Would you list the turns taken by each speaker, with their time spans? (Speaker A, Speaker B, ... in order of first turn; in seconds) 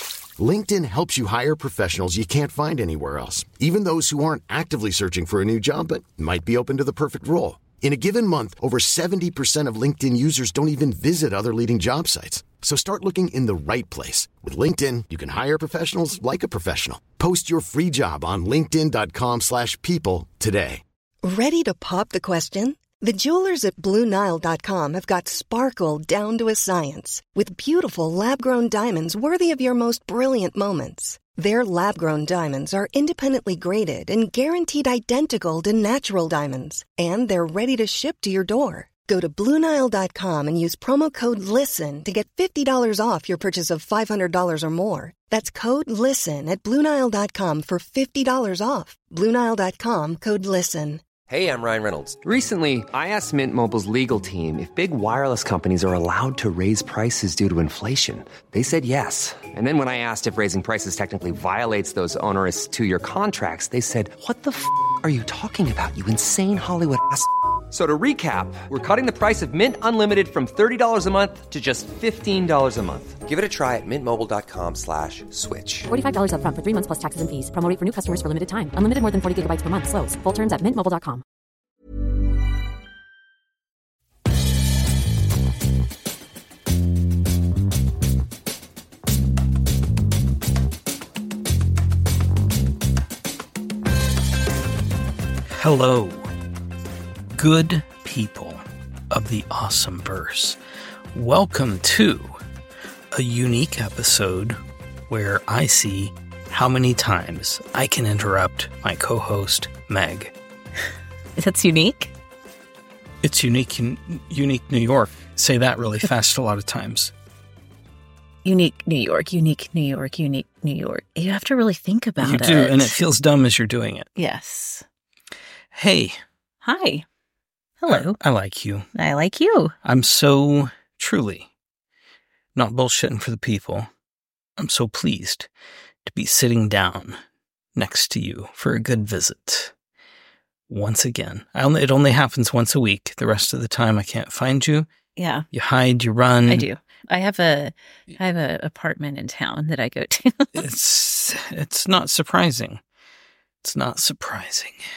Speaker A: 0.4-20.8
Speaker B: 21.2-51.0
Speaker C: 51.3-75.9
Speaker D: 75.9-81.2
Speaker E: 95.5-96.3, 97.3-100.6, 101.1-102.4, 103.1-110.3, 113.2-117.1, 122.2-124.1, 125.7-126.2, 127.9-128.9, 129.8-131.5, 132.5-133.9, 134.6-135.5, 136.0-137.2, 137.8-139.7, 140.7-144.9, 145.5-146.7, 150.5-152.8, 153.6-154.8
Speaker F: 111.4-112.1, 118.4-123.0, 124.2-124.8, 126.6-127.0, 127.8-128.2, 128.9-129.7, 145.2-145.4, 146.5-150.6